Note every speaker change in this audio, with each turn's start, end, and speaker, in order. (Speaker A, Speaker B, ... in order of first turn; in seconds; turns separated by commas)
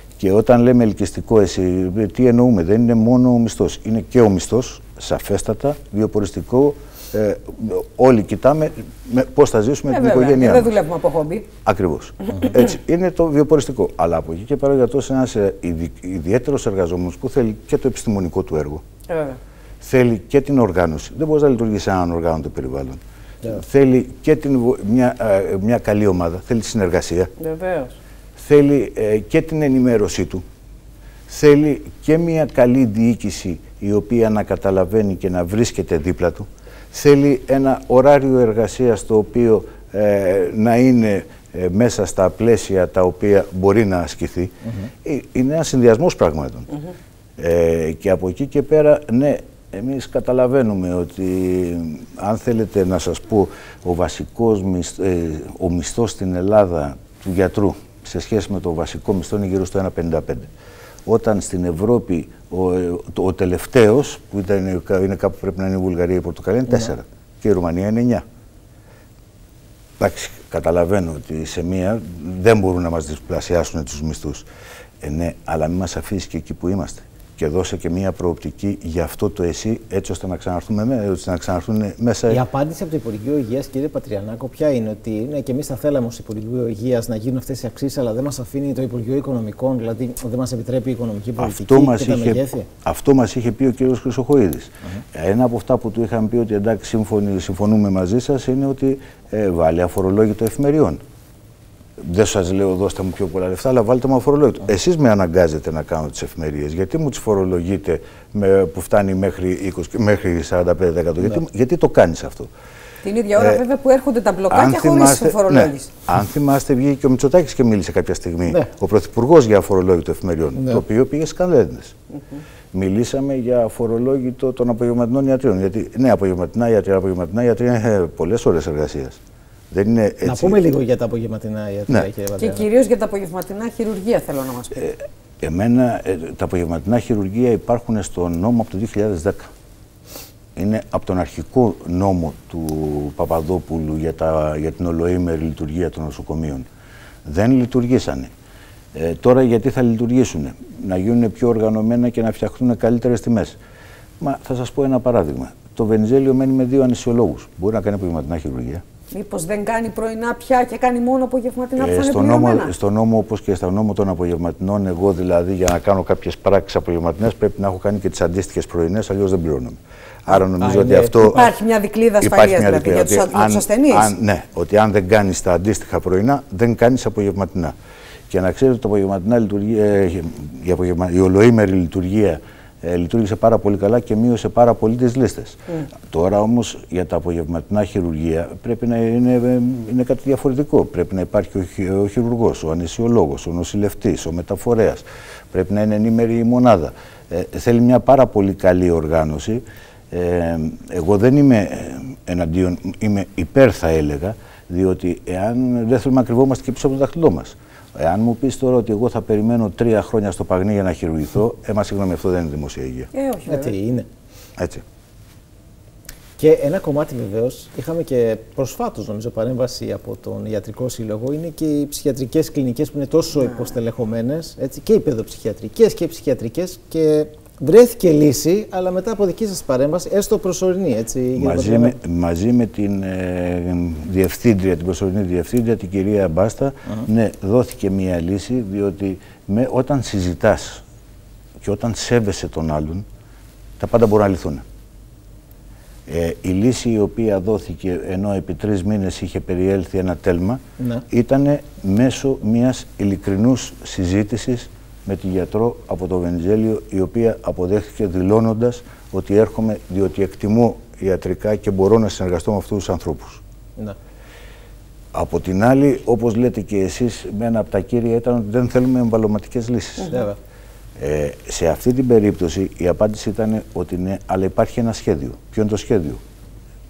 Speaker A: 0.2-10.7, Speaker B: 9.9-11.5, Speaker A: 11.6-18.8, Speaker B: 19.1-19.4, Speaker A: 19.8-27.3, Speaker B: 27.4-27.9, Speaker A: 28.4-30.4, Speaker A: 31.3-46.7, Speaker A: 47.4-60.5, Speaker A: 61.0-68.2, Speaker A: 70.0-74.5, Speaker A: 75.0-82.4, Speaker C: 82.3-92.7, Speaker A: 91.4-101.0, Speaker A: 102.0-112.5, Speaker B: 113.0-115.9, Speaker A: 113.3-113.6, Speaker A: 114.5-121.9, Speaker C: 120.5-120.8, Speaker A: 122.7-129.2, Speaker A: 129.7-130.6, Speaker C: 130.2-132.7, Speaker B: 132.4-134.8, Speaker A: 134.8-139.5, Speaker A: 140.6-146.7, Speaker A: 147.2-148.3, Speaker A: 148.9-153.6, Speaker A: 154.2-158.8, Speaker B: 159.1-162.7, Speaker A: 161.8-171.5, Speaker C: 170.6-171.4, Speaker B: 171.2-174.1, Speaker A: 172.2-177.7, Speaker A: 178.3-213.1, Speaker B: 213.1-213.7, Speaker C: 213.4-214.1, Speaker A: 214.6-214.8, Speaker C: 216.4-231.9, Speaker A: 231.3-240.8, Speaker A: 241.6-243.0, Speaker A: 243.8-244.6, Speaker A: 246.1-263.4, Speaker C: 250.8-251.0, Speaker A: 265.1-270.1, Speaker C: 270.1-270.4, Speaker A: 271.0-276.2